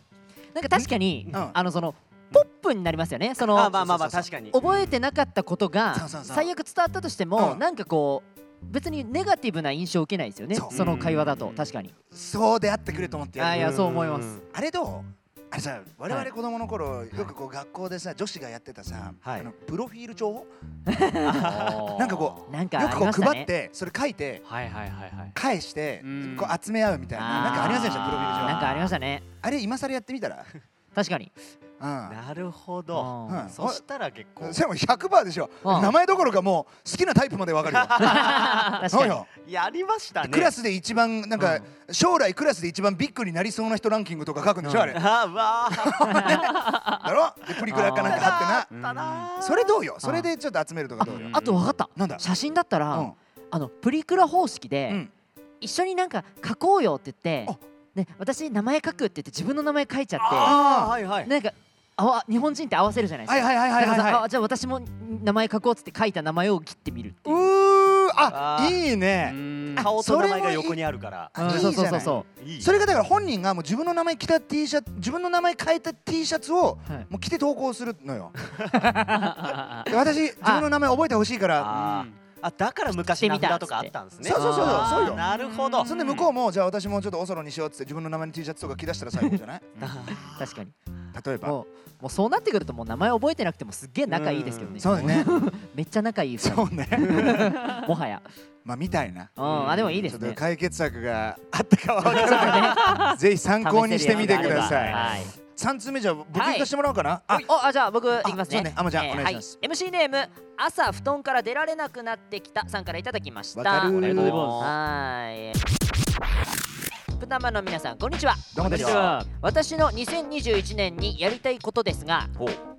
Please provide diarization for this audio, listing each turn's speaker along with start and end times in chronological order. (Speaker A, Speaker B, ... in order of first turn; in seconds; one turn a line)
Speaker A: 0.5-3.8
Speaker B: 0.8-1.6
Speaker C: 3.5-4.6
Speaker B: 3.8-4.3
Speaker A: 4.5-11.9
Speaker B: 5.9-6.5
Speaker B: 7.4-7.6
Speaker B: 10.5-11.0
Speaker C: 10.7-11.5
Speaker B: 12.1-13.9
Speaker A: 13.4-14.3
Speaker C: 13.5-14.4
Speaker B: 14.5-20.5
Speaker C: 19.2-19.5
Speaker A: 20.9-21.4
Speaker C: 21.2-22.1
Speaker D: 21.4-22.5
Speaker B: 21.9-24.4
Speaker A: 22.5-23.5
Speaker D: 24.5-25.4
Speaker B: 25.3-28.9
Speaker D: 26.0-26.6
Speaker A: 27.1-29.2
Speaker D: 27.3-28.6
Speaker C: 27.8-28.6
Speaker B: 29.4-30.5
Speaker A: 30.9-31.3
Speaker B: 31.8-32.2
Speaker C: 32.1-34.6
Speaker A: 32.9-33.5
Speaker B: 33.3-33.8
Speaker B: 34.4-39.3
Speaker A: 35.6-35.9
Speaker C: 37.7-38.7
Speaker A: 38.0-39.2
Speaker C: 39.3-40.5
Speaker B: 40.2-45.1
Speaker A: 44.6-45.0
Speaker C: 44.9-46.5
Speaker B: 45.7-48.7
Speaker A: 47.7-48.4
Speaker C: 47.7-49.8
Speaker D: 48.7-49.3
Speaker B: 49.4-51.3
Speaker A: 50.0-50.3
Speaker A: 51.0-55.0
Speaker D: 51.0-51.7
Speaker B: 52.0-52.3
Speaker A: 55.6-60.6
Speaker C: 60.2-61.3
Speaker B: 60.3-61.0
Speaker A: 61.2-67.5
Speaker B: 63.3-64.2
Speaker B: 67.2-70.8
Speaker C: 68.3-68.8
Speaker D: 69.2-69.9
Speaker C: 69.8-72.7
Speaker B: 71.3-78.3
Speaker A: 71.4-72.3
Speaker D: 79.2-79.9
Speaker B: 79.9-81.8
Speaker A: 80.4-80.7
Speaker C: 81.6-86.0
Speaker D: 81.7-82.2
Speaker A: 83.1-85.2
Speaker B: 84.2-85.2
Speaker D: 85.1-86.3
Speaker B: 85.8-89.7
Speaker D: 89.8-90.2
Speaker C: 89.8-90.6
Speaker A: 90.3-90.7
Speaker B: 91.1-91.6
Speaker A: 91.4-98.2
Speaker C: 94.1-95.0
Speaker B: 94.8-95.3
Speaker B: 96.4-97.5
Speaker C: 97.1-97.4
Speaker B: 98.7-107.5
Speaker A: 99.4-100.4
Speaker C: 99.4-100.1
Speaker A: 102.1-103.1
Speaker C: 102.1-102.6
Speaker D: 102.8-103.2
Speaker A: 103.6-105.3
Speaker D: 104.1-105.2
Speaker A: 106.3-106.7
Speaker A: 107.5-114.0
Speaker B: 108.2-109.6
Speaker B: 113.5-114.6
Speaker D: 114.0-114.7
Speaker C: 114.0-114.7
Speaker A: 114.6-115.6
Speaker A: 117.2-122.3
Speaker B: 118.5-119.2
Speaker D: 118.6-119.3